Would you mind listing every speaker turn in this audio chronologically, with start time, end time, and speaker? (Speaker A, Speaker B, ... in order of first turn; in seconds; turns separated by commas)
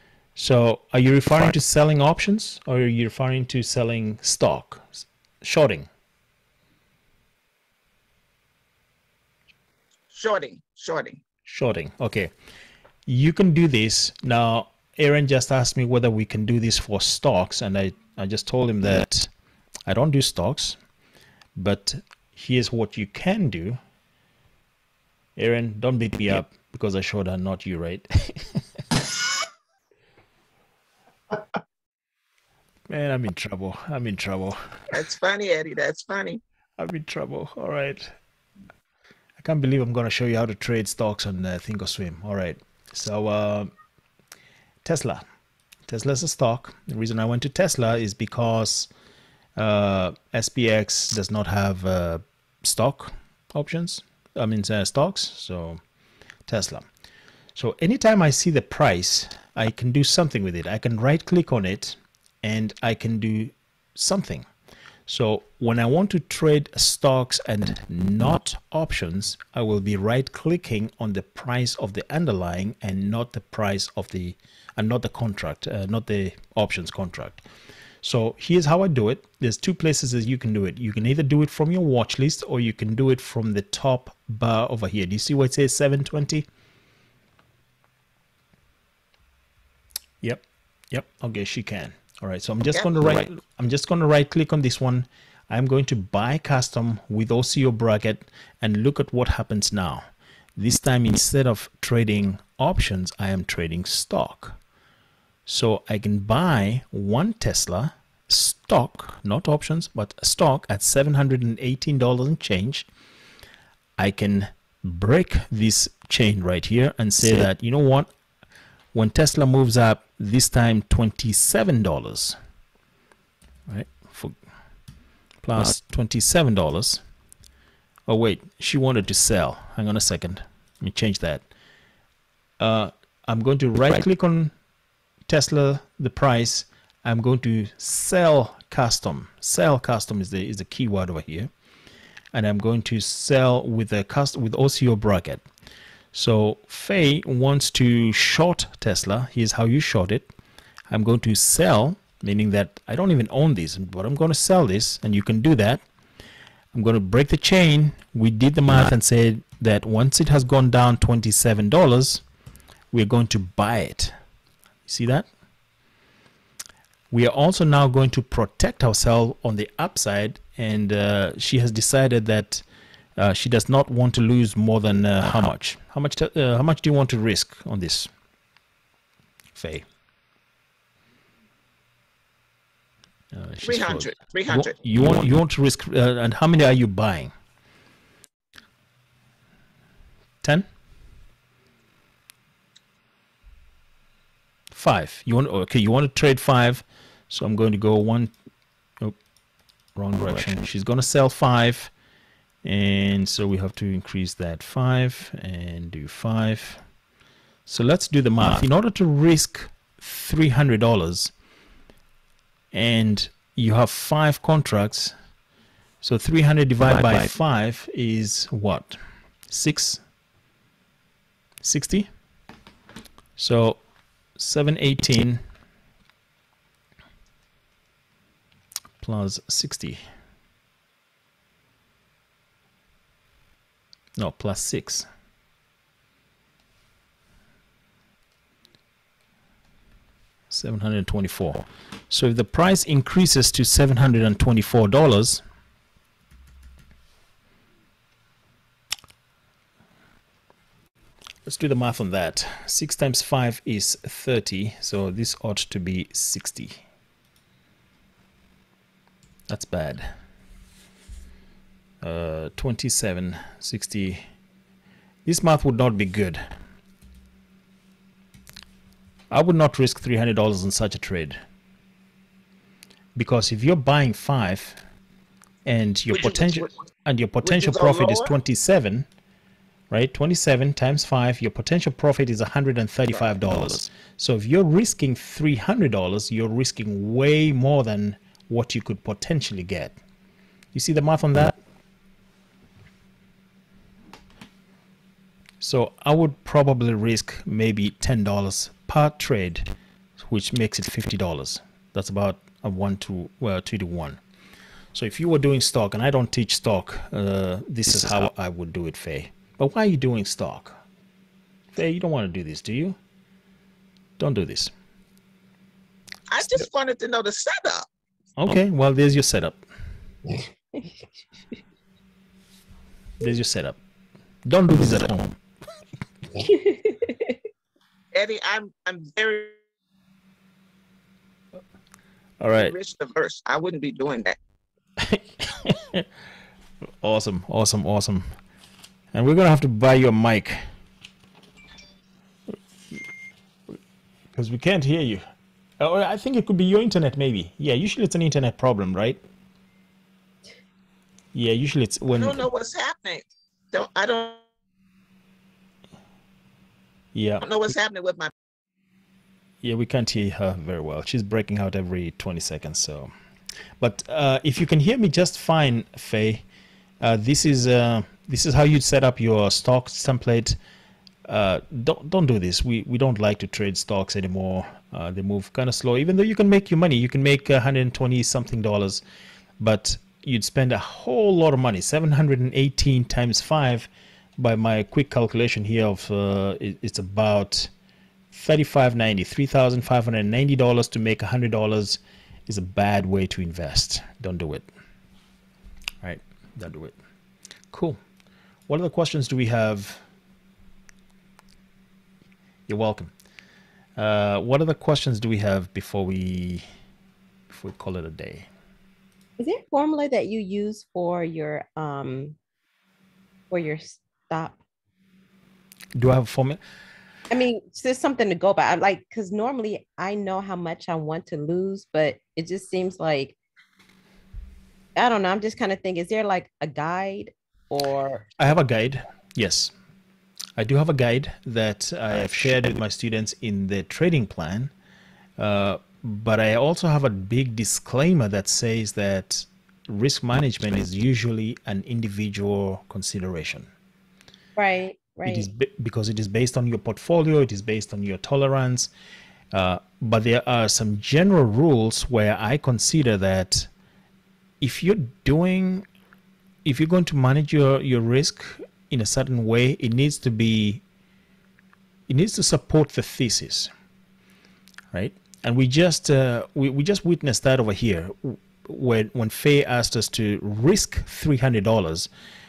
Speaker A: 0.3-5.9, Speaker B: 10.1-11.2, Speaker A: 11.4-12.3, Speaker A: 13.1-19.3, Speaker A: 19.9-20.8, Speaker A: 21.6-23.8, Speaker A: 25.4-28.6, Speaker A: 32.9-34.6, Speaker B: 34.9-36.4, Speaker A: 36.8-38.1, Speaker A: 39.4-43.7, Speaker A: 44.8-45.2, Speaker A: 45.9-48.9, Speaker A: 49.5-55.8, Speaker A: 56.5-56.9, Speaker A: 57.5-64.5, Speaker A: 65.1-77.4, Speaker A: 78.0-86.5, Speaker A: 90.2-104.6, Speaker B: 92.7-93.2, Speaker A: 105.5-112.9, Speaker A: 114.0-118.1, Speaker A: 118.9-122.4, Speaker A: 123.7-124.4, Speaker A: 125.4-127.0, Speaker A: 128.1-131.4, Speaker A: 132.6-134.5, Speaker A: 135.3-141.5, Speaker A: 142.3-145.4, Speaker A: 146.1-150.3, Speaker A: 150.9-155.8, Speaker A: 156.7-162.2, Speaker A: 162.9-164.1, Speaker A: 164.8-165.3, Speaker A: 167.1-172.6, Speaker A: 173.2-178.1, Speaker A: 179.5-179.9, Speaker A: 183.3-187.3, Speaker B: 183.6-184.8, Speaker A: 194.7-198.3, Speaker A: 199.9-201.9, Speaker A: 202.6-206.8, Speaker A: 207.7-211.3, Speaker A: 212.7-215.1, Speaker A: 216.0-220.0, Speaker A: 221.6-222.1, Speaker A: 223.4-223.8, Speaker A: 224.3-225.4, Speaker A: 229.0-230.0, Speaker A: 234.2-235.1, Speaker A: 240.5-245.4, Speaker A: 251.4-256.8, Speaker A: 259.5-260.1, Speaker A: 262.0-264.2, Speaker A: 265.2-266.5, Speaker A: 269.3-271.4, Speaker A: 273.1-274.8, Speaker A: 275.6-279.1, Speaker B: 276.1-276.7, Speaker B: 277.4-278.3, Speaker A: 279.9-289.9, Speaker A: 290.7-291.6, Speaker A: 295.6-304.2, Speaker A: 304.9-310.8, Speaker A: 311.7-313.0, Speaker A: 314.2-314.7, Speaker B: 316.3-317.9, Speaker A: 318.4-319.6, Speaker A: 323.2-323.8, Speaker A: 324.4-325.4, Speaker C: 326.4-327.3, Speaker B: 328.1-329.6, Speaker A: 332.4-332.7, Speaker B: 332.5-334.4, Speaker A: 335.0-336.1, Speaker A: 337.0-338.3, Speaker A: 339.1-340.6, Speaker A: 344.3-345.2, Speaker A: 345.8-349.2, Speaker A: 351.3-352.4, Speaker B: 352.1-354.4, Speaker A: 357.1-357.5, Speaker B: 357.4-358.3, Speaker A: 359.6-363.1, Speaker A: 363.8-366.4, Speaker A: 367.0-370.6, Speaker A: 371.3-379.0, Speaker A: 379.6-387.7, Speaker A: 388.3-394.7, Speaker A: 396.0-397.0, Speaker A: 397.7-398.0, Speaker A: 398.7-400.0, Speaker A: 402.7-403.1, Speaker A: 403.9-406.6, Speaker A: 407.5-408.5, Speaker C: 409.4-412.4, Speaker C: 413.5-414.6, Speaker A: 415.9-416.6, Speaker C: 417.3-423.4, Speaker C: 424.9-428.2, Speaker A: 428.4-429.7, Speaker A: 430.6-434.7, Speaker A: 435.4-443.7, Speaker C: 444.6-445.5, Speaker A: 445.2-448.9, Speaker A: 449.5-453.7, Speaker A: 454.6-455.9, Speaker A: 456.6-460.8, Speaker A: 462.1-463.7, Speaker A: 464.9-472.1